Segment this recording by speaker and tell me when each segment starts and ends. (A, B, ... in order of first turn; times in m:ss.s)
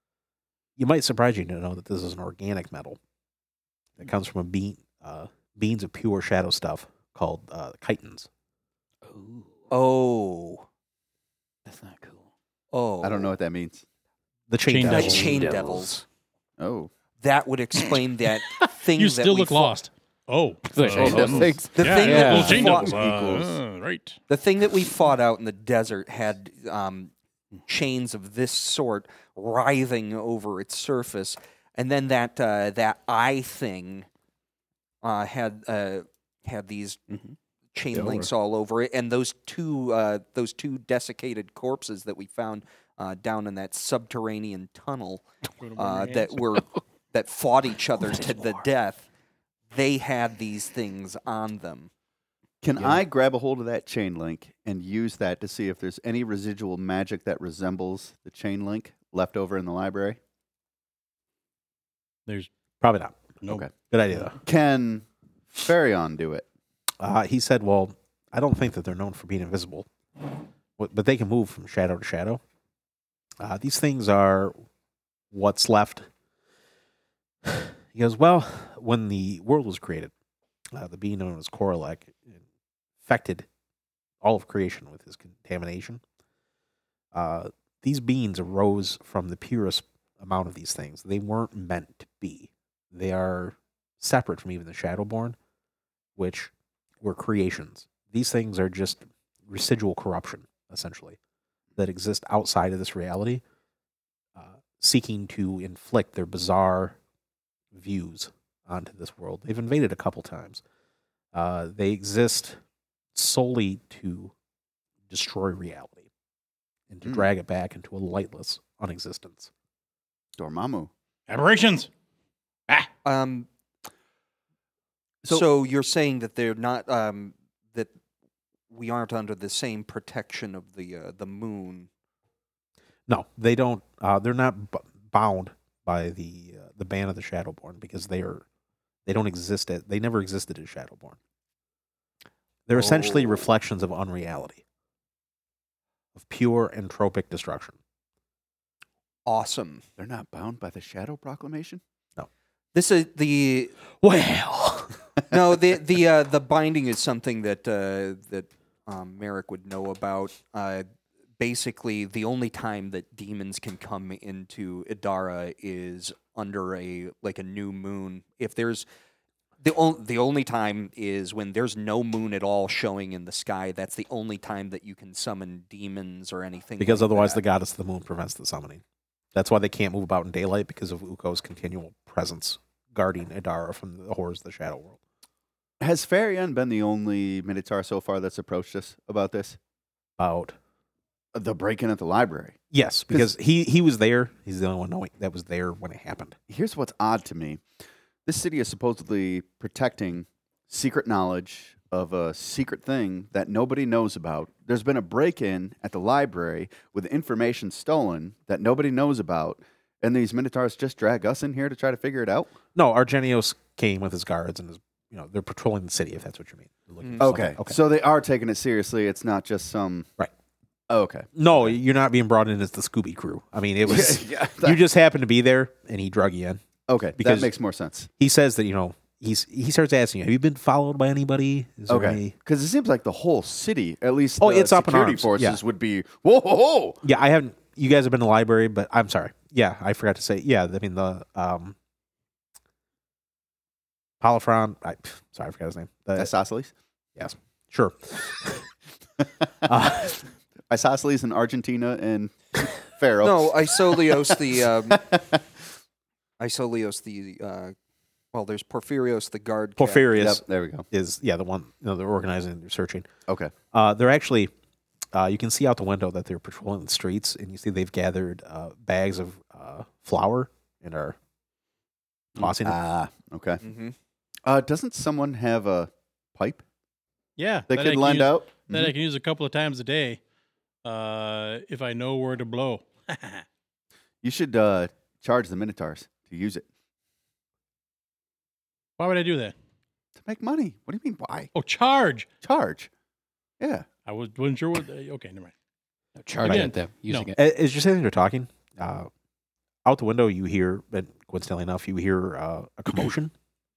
0:00.8-0:03.0 A
0:04.0-0:08.3 A
0:09.0-0:09.6 B
0:09.7-0:10.6 C
0:11.7-0:12.3 B
0:12.7-0:13.3 C
0:13.0-0:13.8 D
0:14.5-0:15.5 A
0:14.7-0:15.5 E
0:14.9-0:16.0 C
0:14.9-0:15.9 B
0:16.6-0:16.9 D
0:17.2-0:19.8 C
0:18.4-0:24.2 E
0:20.7-0:22.9 B
0:21.0-0:23.3 C
0:22.9-0:23.4 D
0:24.3-0:27.1 C
0:27.7-0:34.1 C
0:35.0-0:37.0 C
0:37.1-0:37.4 B
0:37.7-0:45.2 C
0:37.9-0:38.3 B
0:45.6-0:46.5 E
0:45.8-0:49.1 C
0:49.7-0:51.9 C
0:52.6-1:00.2 D
0:52.8-0:53.0 B
1:02.8-1:03.4 A
1:03.9-1:04.4 A
1:04.4-1:06.5 D
1:07.0-1:09.9 A
1:10.8-1:12.4 A
1:13.4-1:14.6 A
1:15.3-1:16.1 A
1:17.4-1:20.1 A
1:20.7-1:22.4 A
1:23.0-1:23.5 A
1:24.2-1:26.0 A
1:27.1-1:35.4 A
1:36.2-1:41.2 A
1:41.8-1:43.4 A
1:44.4-1:47.0 A
1:47.7-1:50.6 A
1:51.3-1:52.6 A
1:53.2-1:54.3 A
1:55.1-1:56.1 A
1:56.9-1:59.5 A
2:00.4-2:00.9 D
2:01.3-2:01.9 E
2:03.0-2:03.5 C
2:05.3-2:07.9 C
2:08.7-2:11.9 C
2:13.1-2:18.4 A
2:19.1-2:21.2 A
2:22.7-2:24.6 A
2:22.8-2:23.4 C
2:26.2-2:27.8 A
2:29.3-2:29.8 C
2:30.0-2:31.8 D
2:32.7-2:33.8 C
2:33.9-2:35.0 A
2:35.3-2:40.9 C
2:41.4-2:48.9 C
2:49.6-2:57.4 C
2:56.8-2:58.8 A
2:59.3-3:05.0 A
3:05.8-3:09.6 D
3:10.2-3:10.6 A
3:11.3-3:12.6 D
3:12.7-3:16.4 A
3:16.5-3:17.6 D
3:18.2-3:32.5 D
3:32.8-3:37.8 A
3:37.0-3:37.3 C
3:37.2-3:40.1 D
3:40.9-3:41.8 D
3:41.4-3:46.6 A
3:43.8-3:44.8 D
3:46.9-3:48.1 D
3:47.2-3:47.5 A
3:48.2-3:52.4 A
3:51.9-3:57.0 D
3:54.4-3:55.6 A
3:57.0-4:01.8 A
4:04.2-4:06.3 A
4:06.2-4:06.7 D
4:07.2-4:08.7 A
4:09.6-4:10.2 A
4:10.7-4:15.5 D
4:13.2-4:15.0 C
4:16.4-4:17.8 C
4:18.3-4:20.1 C
4:19.8-4:23.1 A
4:20.1-4:20.9 D
4:23.3-4:23.5 D
4:23.7-4:24.5 A
4:25.1-4:31.2 A
4:32.4-4:32.8 A
4:32.4-4:33.6 D
4:33.6-4:34.0 C
4:34.4-4:36.6 D
4:37.4-4:40.2 E
4:37.7-4:38.9 D
4:40.8-4:43.4 E
4:44.2-4:46.7 D
4:49.0-4:49.5 E
4:50.2-4:51.5 D
4:51.6-4:52.3 E
4:52.4-4:52.9 D
4:53.6-4:53.9 D
4:54.1-4:55.5 E
4:56.2-4:57.4 B
4:56.4-4:56.7 A
4:56.4-4:57.3 E
4:57.4-4:59.1 A
4:59.8-5:03.3 A